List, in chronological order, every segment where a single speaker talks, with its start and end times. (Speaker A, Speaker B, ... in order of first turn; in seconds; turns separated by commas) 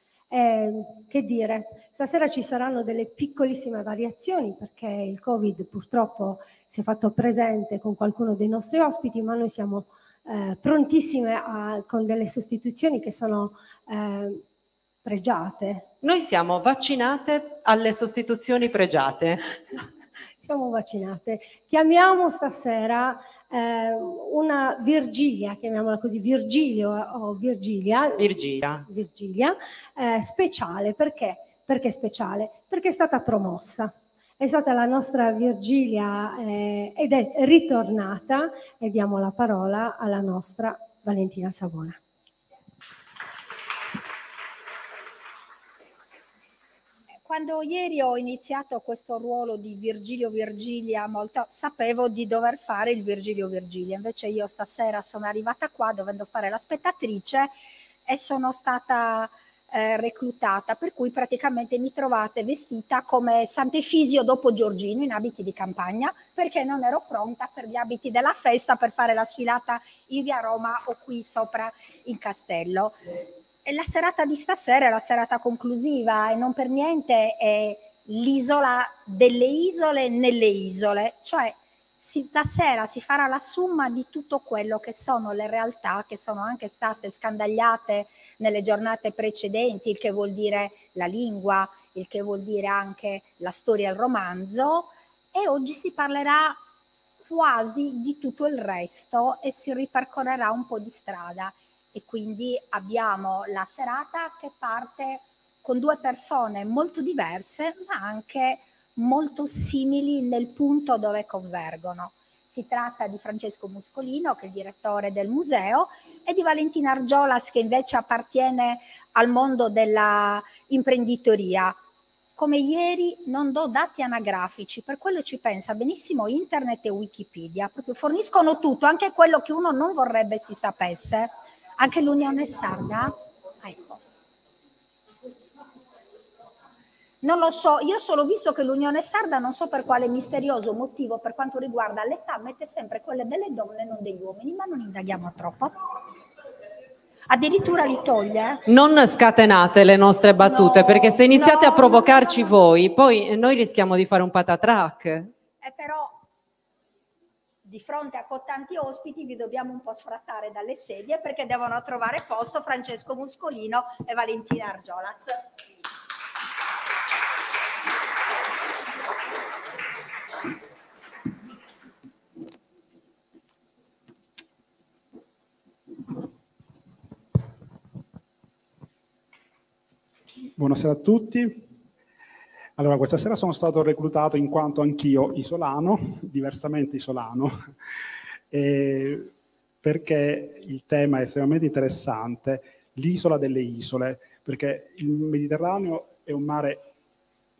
Speaker A: 0.3-14.4, Speaker A: 15.0-15.8, Speaker B: 16.0-19.4, Speaker A: 20.4-28.3, Speaker B: 28.2-28.9, Speaker A: 28.9-42.0, Speaker C: 47.2-57.5, Speaker C: 58.0-73.0, Speaker C: 73.6-96.6, Speaker C: 97.2-121.8, Speaker C: 122.4-134.0, Speaker C: 137.2-145.9, Speaker C: 147.3-148.6, Speaker B: 148.7-155.3, Speaker C: 150.4-152.6, Speaker C: 155.6-156.2, Speaker C: 157.6-165.4, Speaker D: 180.6-181.6, Speaker D: 182.8-187.6, Speaker D: 188.5-189.3, Speaker D: 189.8-196.8